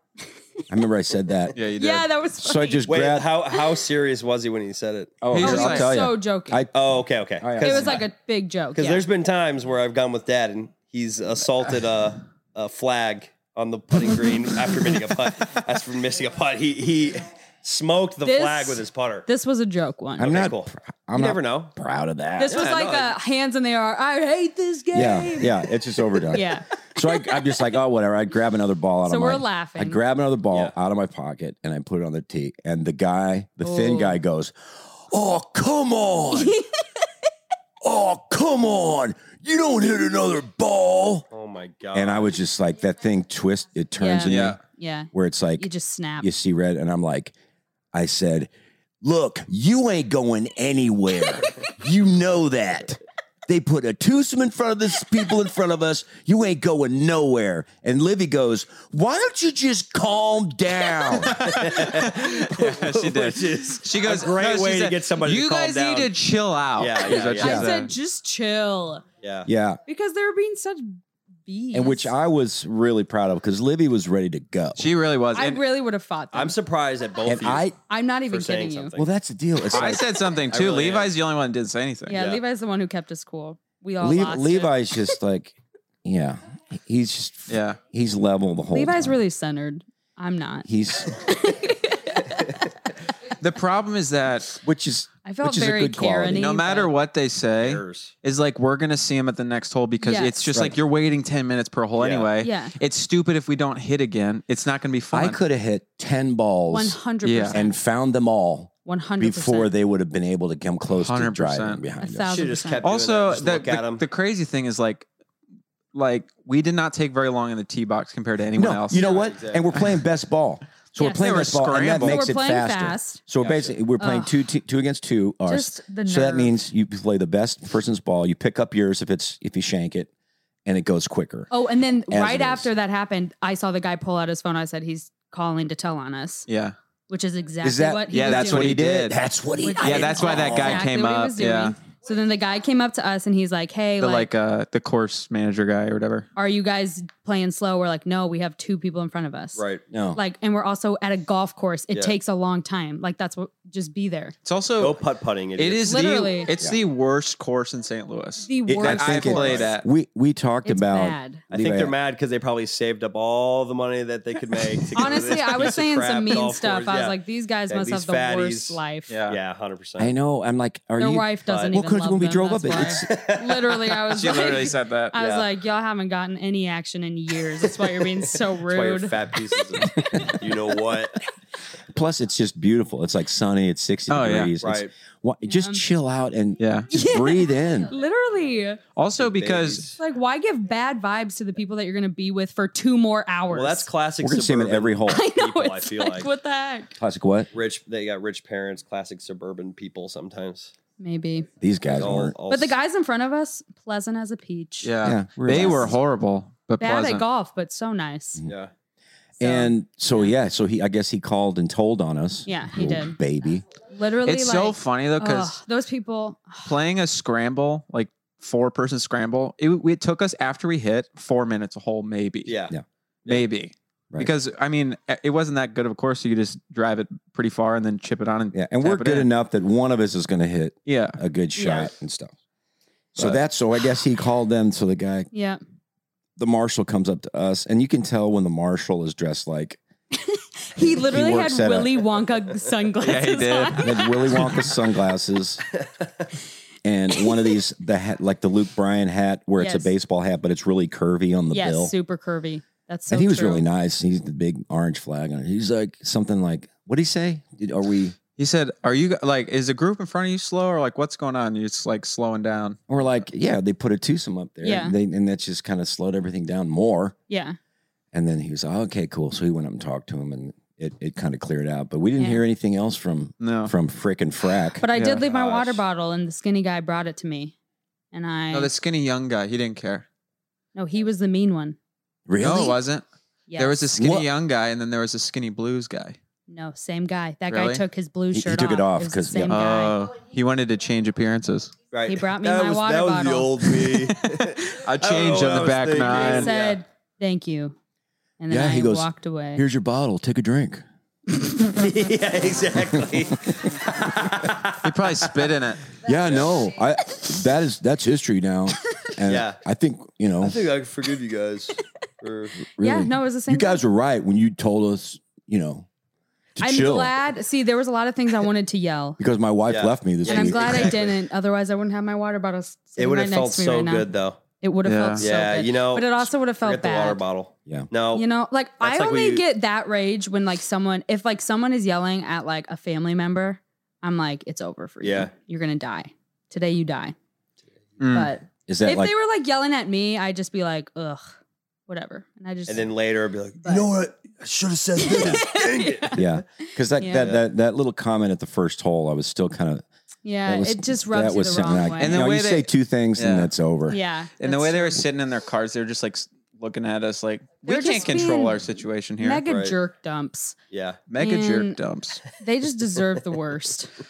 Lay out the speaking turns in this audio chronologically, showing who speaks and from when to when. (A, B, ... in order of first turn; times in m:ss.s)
0:00.7-0:01.6 A
0:01.5-0:02.1 B
0:01.8-0:02.9 C
0:02.4-0:03.3 A
0:02.9-0:05.2 D
0:05.2-0:08.0 A
0:05.3-0:05.9 B
0:05.4-0:06.6 C
0:06.7-0:08.0 D
0:07.6-0:09.0 C
0:08.8-0:19.3 D
0:18.2-0:20.3 C
0:20.2-0:21.7 D
0:20.2-0:22.7 A
0:22.4-0:25.7 C
0:22.5-0:23.2 D
0:24.9-0:36.6 A
0:26.3-0:27.2 C
0:29.1-0:30.0 C
0:33.6-0:34.2 C
0:36.3-0:36.7 C
0:37.8-0:41.3 A
0:41.3-0:42.3 D
0:41.9-0:44.6 A
0:44.0-0:46.3 C
0:44.3-0:44.6 B
0:45.1-0:45.7 A
0:46.2-0:47.3 A
0:47.9-0:48.5 A
0:49.0-1:01.4 A
1:01.1-1:07.9 B
1:01.4-1:06.1 D
1:06.8-1:07.6 D
1:07.4-1:07.7 A
1:07.4-1:09.0 C
1:09.2-1:09.5 D
1:09.4-1:09.8 A
1:09.9-1:12.1 C
1:11.7-1:14.9 A
1:14.8-1:15.6 B
1:15.4-1:16.6 C
1:16.3-1:17.7 D
1:17.2-1:17.8 A
1:17.9-1:19.0 C
1:18.3-1:19.1 D
1:19.0-1:20.0 A
1:19.7-1:22.2 B
1:20.5-1:21.1 D
1:22.1-1:24.9 C
1:22.1-1:22.4 D
1:24.0-1:29.2 A
1:27.5-1:27.8 B
1:28.7-1:32.4 C
1:30.6-1:31.3 A
1:33.4-1:34.6 B
1:34.6-1:36.5 A
1:35.2-1:36.9 C
1:36.3-1:45.4 B
1:37.6-1:38.1 D
1:40.0-1:40.4 C
1:42.0-1:42.3 D
1:42.4-1:42.7 C
1:45.1-1:52.4 A
1:46.7-1:47.7 C
1:47.2-1:47.6 B
1:48.9-1:49.7 C
1:50.9-1:51.8 B
1:52.0-1:52.8 C
1:52.3-1:54.0 D
1:52.8-1:55.1 B
1:55.9-1:59.0 B
1:58.6-2:10.1 A
1:58.9-1:59.6 D
2:01.0-2:01.3 C
2:01.2-2:02.3 B
2:02.0-2:03.2 C
2:03.4-2:03.8 D
2:04.0-2:04.3 C
2:05.5-2:06.6 C
2:10.6-2:11.5 A
2:11.5-2:16.5 C
2:12.1-2:12.7 A
2:16.5-2:16.8 B
2:17.1-2:18.9 C
2:17.6-2:20.9 A
2:18.1-2:19.2 B
2:19.6-2:24.3 C
2:19.8-2:21.8 B
2:24.0-2:26.3 B
2:26.4-2:29.6 C
2:29.6-2:29.8 D
2:29.9-2:30.2 A
2:30.2-2:34.4 C
2:34.4-2:35.0 B
2:34.8-2:35.9 D
2:35.6-2:39.9 B
2:35.8-2:36.5 C
2:38.4-2:39.7 C
2:38.7-2:42.0 A
2:40.6-2:41.4 C
2:41.5-2:47.2 D
2:45.0-2:49.1 C
2:47.7-2:50.1 D
2:49.1-2:49.4 B
2:50.0-2:53.2 A
2:51.0-2:59.2 C
2:51.5-2:51.8 D
2:52.8-2:54.5 D
2:54.1-2:55.1 B
2:55.2-2:55.5 D
2:58.6-3:01.2 D
3:01.9-3:07.9 A
3:04.1-3:04.5 B
3:04.6-3:04.9 D
3:05.5-3:05.8 C
3:06.6-3:06.9 B
3:06.9-3:08.8 C
3:09.0-3:09.9 B
3:09.2-3:10.0 D
3:10.0-3:13.9 C
3:13.5-3:16.3 D
3:14.2-3:15.2 A
3:15.1-3:16.9 C
3:17.0-3:17.5 A
3:17.5-3:20.7 D
3:21.0-3:21.5 C
3:21.6-3:22.4 A
3:21.8-3:22.8 D
3:22.5-3:24.9 C
3:24.8-3:27.2 B
3:25.0-3:26.0 A
3:25.5-3:25.8 C
3:26.8-3:28.4 C
3:28.5-3:28.7 D
3:29.4-3:33.6 A
3:29.4-3:30.3 C
3:32.5-3:33.2 C
3:33.9-3:36.7 C
3:34.2-3:35.6 B
3:36.6-3:42.6 B
3:42.5-3:42.8 D
3:43.3-3:49.3 B
3:48.5-3:52.3 A
3:50.9-3:51.2 B
3:51.6-3:51.9 C
3:53.2-3:55.3 A
3:55.3-3:55.6 C
3:56.4-3:59.8 A
4:00.1-4:04.2 C
4:00.8-4:02.0 A
4:03.0-4:04.6 B
4:03.8-4:05.6 A
4:06.8-4:11.9 A
4:09.6-4:09.9 C
4:11.5-4:13.6 C
4:13.1-4:18.2 A
4:18.4-4:22.8 B
4:22.9-4:27.2 A
4:24.6-4:25.0 C
4:27.3-4:27.6 C
4:28.1-4:34.8 A
4:32.2-4:32.4 C
4:33.4-4:33.7 B
4:34.8-4:37.6 C
4:34.9-4:35.2 B
4:35.2-4:35.8 D
4:38.1-4:38.7 C
4:38.5-4:40.1 B
4:40.8-4:41.8 C
4:42.3-4:42.8 A
4:42.4-4:43.0 B
4:43.5-4:43.8 C
4:43.6-4:46.2 B
4:44.0-4:44.3 A
4:46.5-4:50.0 C
4:47.5-4:47.8 B
4:48.3-4:49.6 A
4:49.5-4:51.7 B
4:51.9-4:56.8 D
4:52.1-4:53.7 C
4:54.7-4:56.5 B
4:56.0-4:57.8 C
4:58.4-4:59.6 C
4:58.5-5:00.8 A
5:01.7-5:04.8 D
5:04.8-5:05.8 B
5:06.0-5:10.6 A
5:09.3-5:09.6 D
5:10.4-5:12.6 D
5:12.8-5:15.9 A
5:12.8-5:13.8 C
5:16.6-5:17.1 A
5:16.6-5:19.2 C
5:19.2-5:21.0 A
5:19.7-5:21.2 D
5:20.2-5:24.1 C
5:23.0-5:24.4 D
5:24.6-5:27.2 C
5:24.8-5:25.2 B
5:25.2-5:28.3 D
5:28.1-5:37.2 C
5:28.8-5:29.4 D
5:35.0-5:35.3 D
5:38.0-5:38.3 B
5:38.1-5:41.3 C
5:38.7-5:39.1 A
5:41.9-5:42.9 C
5:42.7-5:46.4 D
5:43.6-5:43.9 C
5:45.0-5:47.3 C
5:46.1-5:49.8 A
5:47.2-5:47.4 D
5:50.2-5:52.2 C
5:50.5-5:54.0 A
5:52.0-5:53.5 B
5:53.9-5:55.0 C
5:54.4-5:59.4 B
5:57.6-5:58.6 C
5:59.2-6:00.6 C
5:59.4-5:59.8 D
6:00.7-6:01.0 D
6:01.1-6:02.2 B
6:01.2-6:01.8 C
6:02.4-6:04.0 C